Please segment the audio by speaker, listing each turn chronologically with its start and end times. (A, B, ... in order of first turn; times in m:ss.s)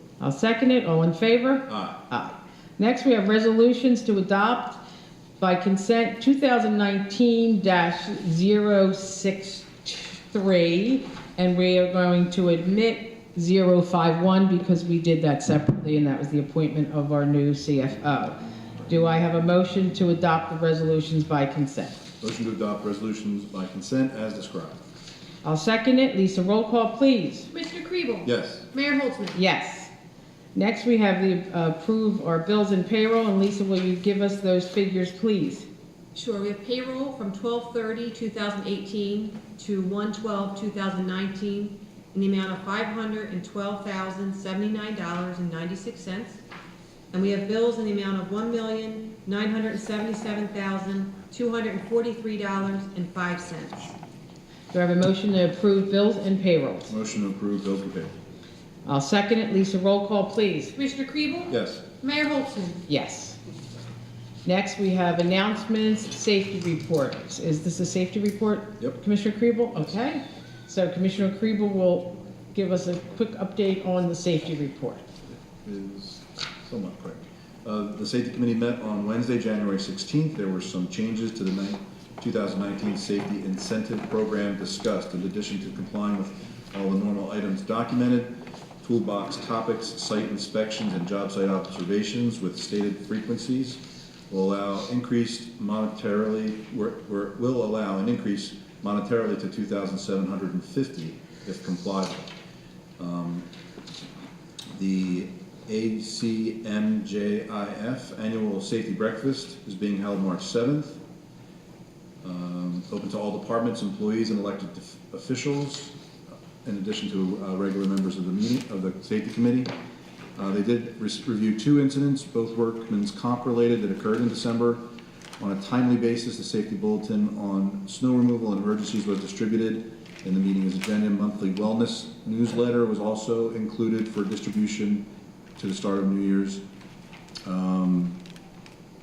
0:00.2-0:04.8 A
0:01.7-0:02.0 B
0:05.4-0:22.0 A
0:22.2-0:24.8 B
0:25.4-0:27.5 A
0:27.5-0:29.4 C
0:28.2-0:28.6 B
0:29.3-0:29.9 A
0:30.5-0:35.7 A
0:36.1-0:46.4 C
0:47.1-0:54.0 C
0:54.7-0:56.9 A
0:56.9-0:58.1 B
0:58.8-1:00.7 A
1:00.7-1:02.8 C
1:01.5-1:01.8 B
1:02.9-1:03.4 A
1:04.4-1:15.0 A
1:15.6-1:42.3 B
1:43.0-1:43.5 B
1:44.7-1:51.0 B
1:52.2-1:55.9 B
1:56.6-1:59.7 B
2:00.4-2:04.8 B
2:05.4-2:16.6 B
2:17.4-2:18.2 B